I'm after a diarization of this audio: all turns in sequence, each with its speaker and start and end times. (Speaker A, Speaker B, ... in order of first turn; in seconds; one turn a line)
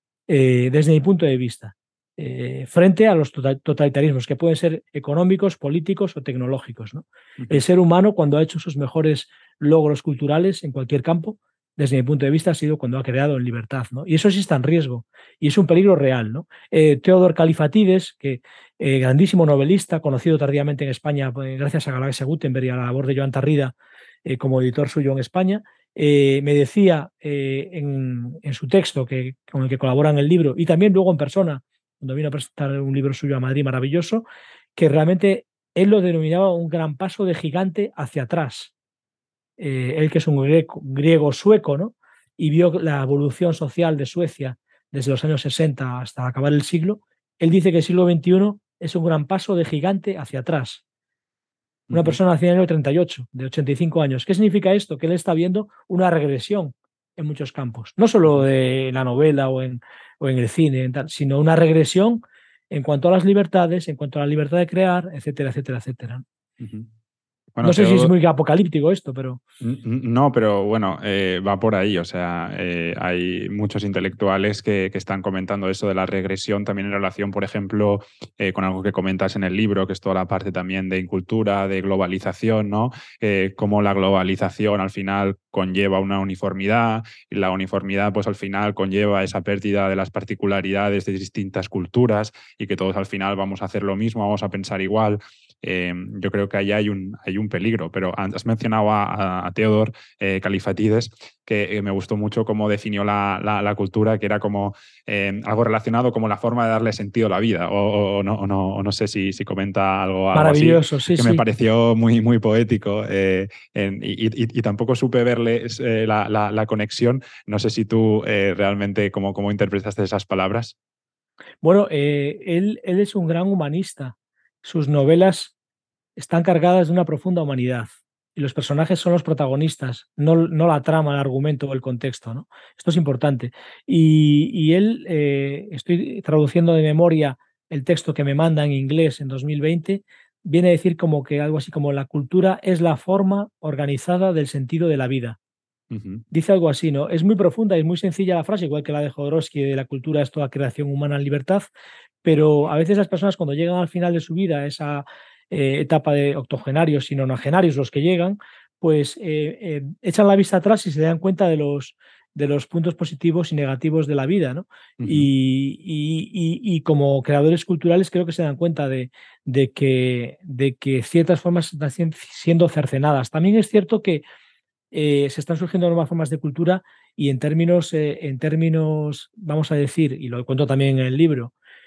Speaker A: 0.3-23.7
Speaker A: 24.2-34.2
Speaker A: 34.8-38.7
Speaker A: 39.6-50.8
Speaker B: 51.9-52.2
Speaker A: 51.9-66.2
Speaker B: 66.6-66.9
Speaker B: 67.5-68.1
Speaker A: 67.6-69.4
Speaker B: 69.6-120.8
Speaker A: 110.3-111.4
Speaker A: 121.6-125.5
Speaker A: 126.2-145.4
Speaker B: 145.9-146.2
Speaker A: 146.3-151.7
Speaker A: 152.2-174.2
Speaker B: 165.0-165.3
Speaker A: 174.9-181.5